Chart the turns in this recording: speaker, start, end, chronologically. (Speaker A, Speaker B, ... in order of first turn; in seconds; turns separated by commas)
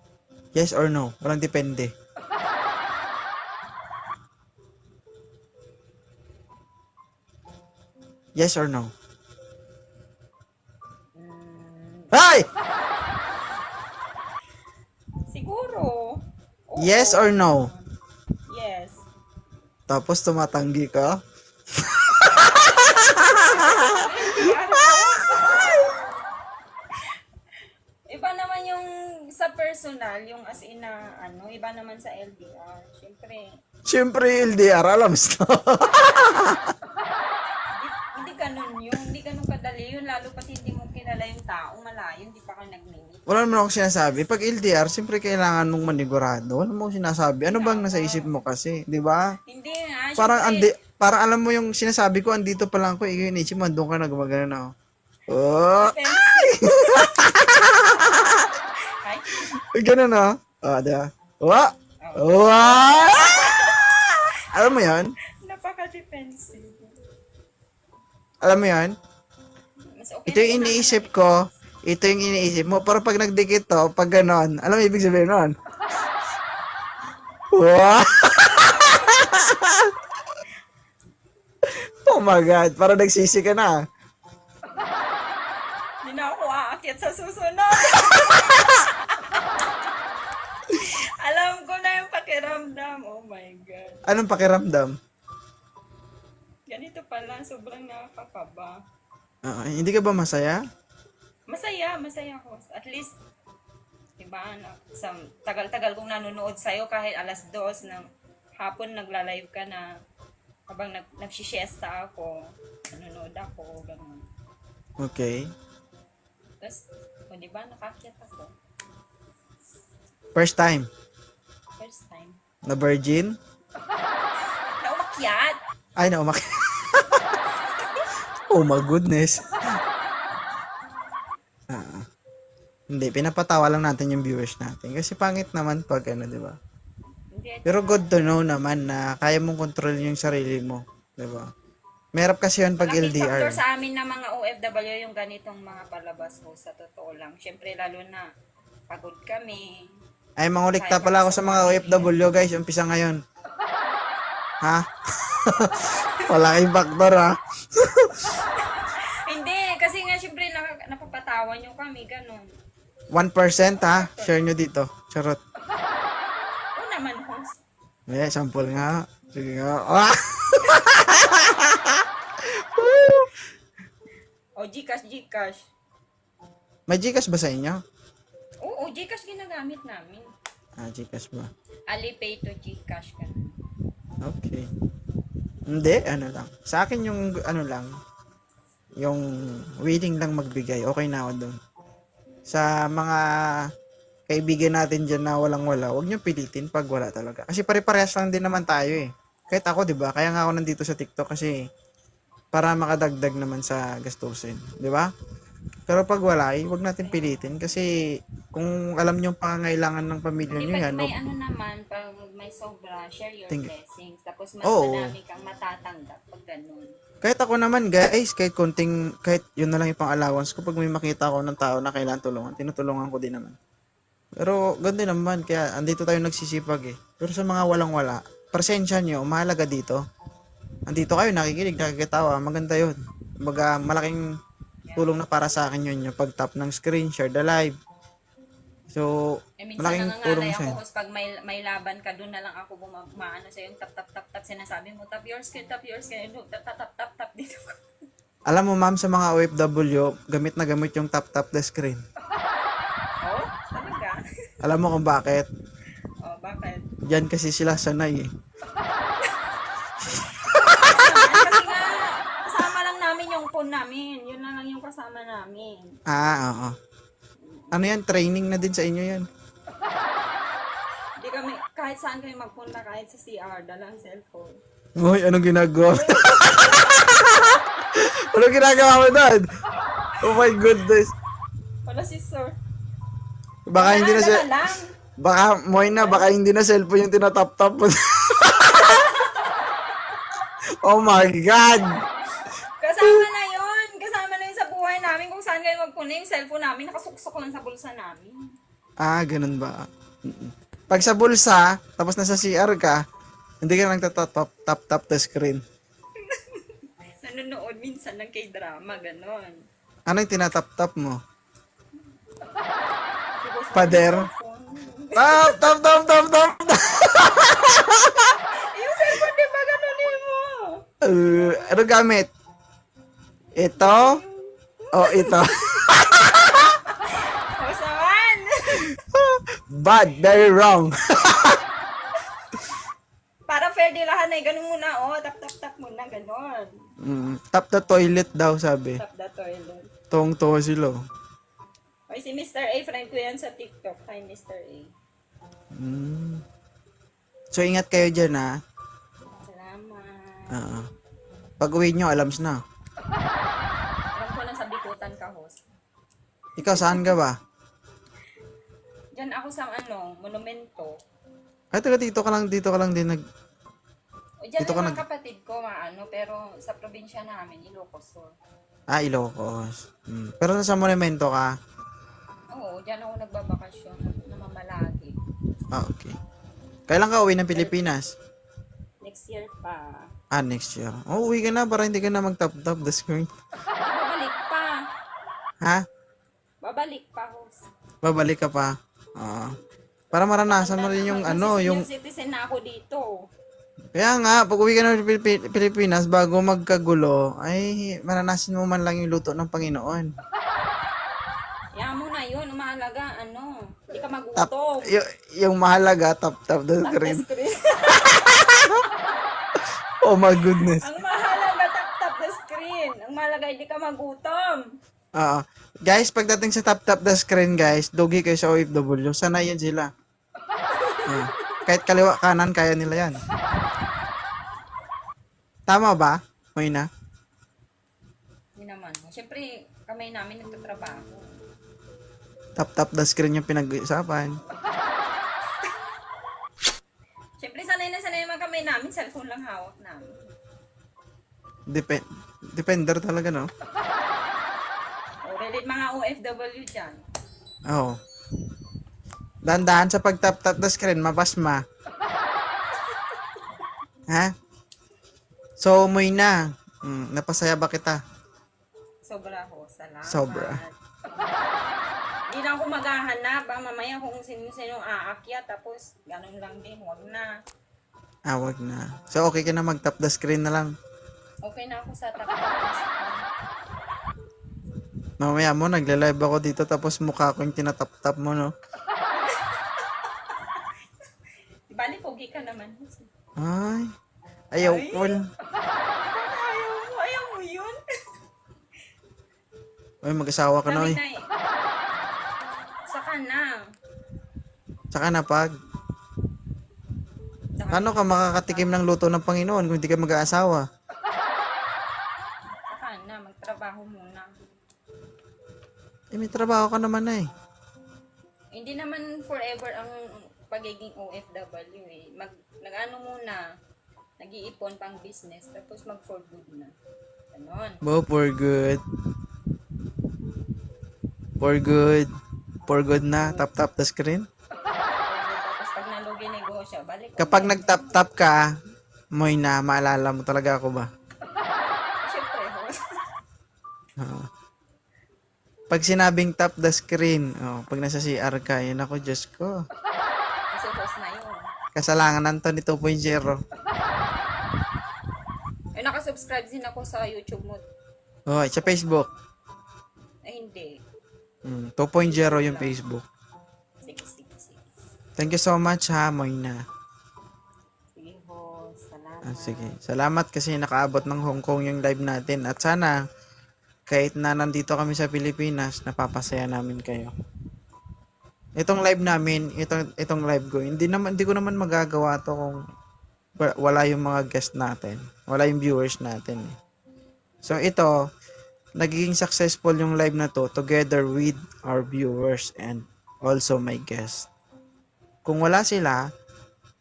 Speaker A: 0.5-1.9, Speaker A: 8.3-8.9, Speaker B: 11.2-12.1, Speaker A: 12.1-12.5, Speaker B: 15.3-17.9, Speaker A: 16.8-17.7, Speaker B: 18.5-19.0, Speaker A: 19.9-21.2, Speaker A: 21.8-24.0, Speaker B: 22.3-26.1, Speaker B: 28.1-33.5, Speaker A: 33.9-36.7, Speaker B: 37.8-43.4, Speaker A: 43.3-49.3, Speaker B: 47.5-48.3, Speaker B: 49.5-50.7, Speaker A: 50.2-54.7, Speaker A: 55.3-58.5, Speaker B: 55.7-57.3, Speaker B: 58.9-59.5, Speaker A: 59.7-65.1, Speaker B: 62.0-62.4, Speaker B: 63.0-63.9, Speaker B: 65.4-67.0, Speaker A: 68.4-69.0, Speaker B: 69.9-71.5, Speaker A: 70.3-75.5, Speaker A: 77.5-79.9, Speaker A: 81.6-83.7, Speaker B: 86.0-89.7, Speaker B: 90.8-94.0, Speaker A: 94.1-95.0, Speaker B: 96.7-98.8, Speaker A: 99.4-100.6, Speaker B: 101.5-103.1, Speaker B: 104.2-108.1, Speaker B: 108.6-109.9, Speaker B: 110.7-114.2, Speaker A: 115.0-115.5, Speaker B: 116.6-118.5, Speaker A: 120.3-120.9, Speaker B: 121.8-122.4, Speaker A: 122.7-123.4, Speaker B: 124.8-125.6, Speaker A: 126.0-127.3, Speaker B: 127.7-128.1, Speaker A: 128.5-129.5, Speaker A: 131.7-132.0, Speaker A: 132.9-136.6, Speaker B: 137.3-138.3, Speaker A: 137.7-141.5, Speaker A: 142.2-143.6, Speaker B: 142.8-148.3, Speaker B: 148.9-149.9, Speaker A: 150.4-153.2, Speaker B: 150.7-152.2, Speaker A: 154.6-158.3, Speaker B: 158.5-162.5, Speaker A: 163.1-165.4, Speaker B: 163.7-164.3, Speaker B: 166.8-167.6, Speaker A: 168.1-173.3, Speaker B: 174.6-175.7, Speaker A: 176.9-177.8, Speaker B: 178.6-180.3, Speaker A: 180.8-181.5, Speaker B: 181.9-183.5, Speaker A: 184.2-184.7, Speaker A: 185.7-187.9, Speaker A: 189.0-191.6, Speaker A: 192.5-193.7, Speaker A: 194.3-201.6, Speaker A: 202.5-205.1, Speaker A: 205.9-211.1, Speaker B: 210.6-216.9, Speaker A: 214.6-215.1, Speaker A: 217.2-223.6, Speaker A: 224.4-230.0, Speaker A: 230.9-234.2, Speaker B: 234.9-235.2, Speaker A: 234.9-237.8, Speaker A: 238.9-240.8, Speaker B: 239.6-247.8, Speaker A: 248.5-252.0, Speaker B: 253.2-254.2, Speaker A: 254.6-255.5, Speaker B: 256.2-256.9, Speaker A: 257.0-258.3, Speaker B: 260.1-265.9, Speaker A: 260.5-261.0, Speaker A: 266.1-266.7, Speaker B: 267.4-267.8, Speaker A: 267.7-269.3, Speaker B: 271.2-274.6, Speaker A: 275.0-279.5, Speaker B: 275.9-277.6, Speaker B: 280.1-280.6, Speaker A: 280.2-281.1, Speaker B: 281.8-282.6, Speaker A: 283.7-284.4, Speaker B: 283.8-284.9, Speaker A: 285.2-289.1, Speaker B: 285.8-286.3, Speaker B: 288.6-289.7, Speaker A: 290.8-291.9, Speaker B: 292.8-298.4, Speaker A: 299.0-303.0, Speaker A: 303.6-305.6, Speaker B: 306.2-309.6, Speaker A: 310.1-311.2, Speaker B: 313.4-315.9, Speaker A: 313.7-314.2, Speaker A: 315.1-318.3, Speaker B: 318.7-321.8, Speaker A: 321.0-322.3, Speaker A: 323.6-324.2, Speaker B: 323.7-329.0, Speaker A: 324.9-326.7, Speaker A: 328.9-331.6, Speaker B: 333.5-336.7, Speaker A: 337.0-339.0, Speaker B: 339.0-339.9, Speaker A: 340.1-341.0, Speaker B: 342.1-344.9, Speaker A: 345.7-346.4, Speaker A: 347.5-348.6, Speaker B: 349.4-350.6, Speaker A: 350.5-350.9, Speaker A: 351.6-352.6, Speaker B: 354.1-355.6, Speaker A: 356.6-357.4, Speaker B: 356.6-357.1, Speaker B: 359.1-360.9, Speaker A: 361.7-363.2, Speaker B: 364.4-368.3, Speaker A: 364.6-365.0, Speaker A: 368.9-371.5, Speaker B: 372.5-375.1, Speaker A: 375.7-376.1, Speaker A: 376.9-378.1, Speaker B: 377.5-377.9, Speaker B: 379.0-380.1, Speaker A: 380.3-383.3, Speaker B: 383.8-384.8, Speaker B: 386.6-387.6, Speaker A: 388.0-389.5, Speaker A: 390.1-391.9, Speaker B: 390.4-393.3, Speaker A: 393.9-400.1, Speaker B: 401.7-404.9, Speaker A: 404.4-407.2, Speaker B: 406.8-408.9, Speaker A: 408.1-408.8, Speaker A: 410.0-410.8, Speaker B: 410.3-414.6, Speaker A: 415.2-419.9, Speaker B: 420.7-421.6, Speaker A: 421.1-423.2, Speaker A: 425.7-426.9, Speaker B: 428.6-431.4, Speaker A: 432.6-434.4, Speaker B: 434.4-435.0, Speaker B: 437.4-440.2, Speaker A: 441.7-443.5, Speaker B: 445.2-447.0, Speaker A: 447.7-448.0, Speaker A: 449.4-451.6, Speaker A: 455.6-458.0, Speaker B: 459.0-460.7, Speaker A: 460.1-460.6, Speaker B: 462.3-467.3, Speaker A: 468.3-470.7, Speaker B: 471.4-473.3, Speaker A: 475.2-478.5, Speaker B: 479.1-480.6, Speaker B: 481.7-483.1, Speaker A: 483.4-483.9, Speaker A: 484.5-485.3, Speaker B: 484.6-485.2, Speaker B: 485.9-487.8, Speaker A: 490.0-491.0, Speaker B: 490.6-491.3, Speaker B: 492.9-493.6, Speaker A: 494.9-495.5, Speaker B: 497.6-498.8, Speaker A: 497.7-500.6, Speaker B: 502.7-504.3, Speaker A: 506.1-507.3, Speaker B: 508.5-513.4, Speaker B: 514.2-516.7, Speaker B: 517.3-517.8, Speaker A: 517.8-518.8, Speaker A: 521.4-522.1, Speaker A: 522.7-524.3, Speaker B: 523.1-523.5, Speaker B: 525.1-528.0, Speaker A: 527.2-528.5, Speaker A: 529.1-530.9, Speaker B: 532.0-532.8, Speaker A: 534.0-534.3, Speaker A: 535.7-539.5, Speaker B: 540.5-541.5, Speaker A: 541.7-543.4, Speaker B: 545.7-547.6, Speaker A: 548.3-549.1, Speaker B: 548.6-549.2, Speaker B: 550.2-550.8, Speaker A: 551.5-553.0, Speaker B: 552.0-552.8, Speaker B: 553.8-554.6, Speaker A: 555.2-556.6, Speaker B: 558.0-559.8, Speaker A: 559.2-563.0, Speaker A: 563.9-567.1, Speaker A: 568.6-572.6, Speaker A: 573.4-576.5, Speaker A: 577.4-577.9, Speaker A: 578.8-584.3, Speaker A: 585.2-586.0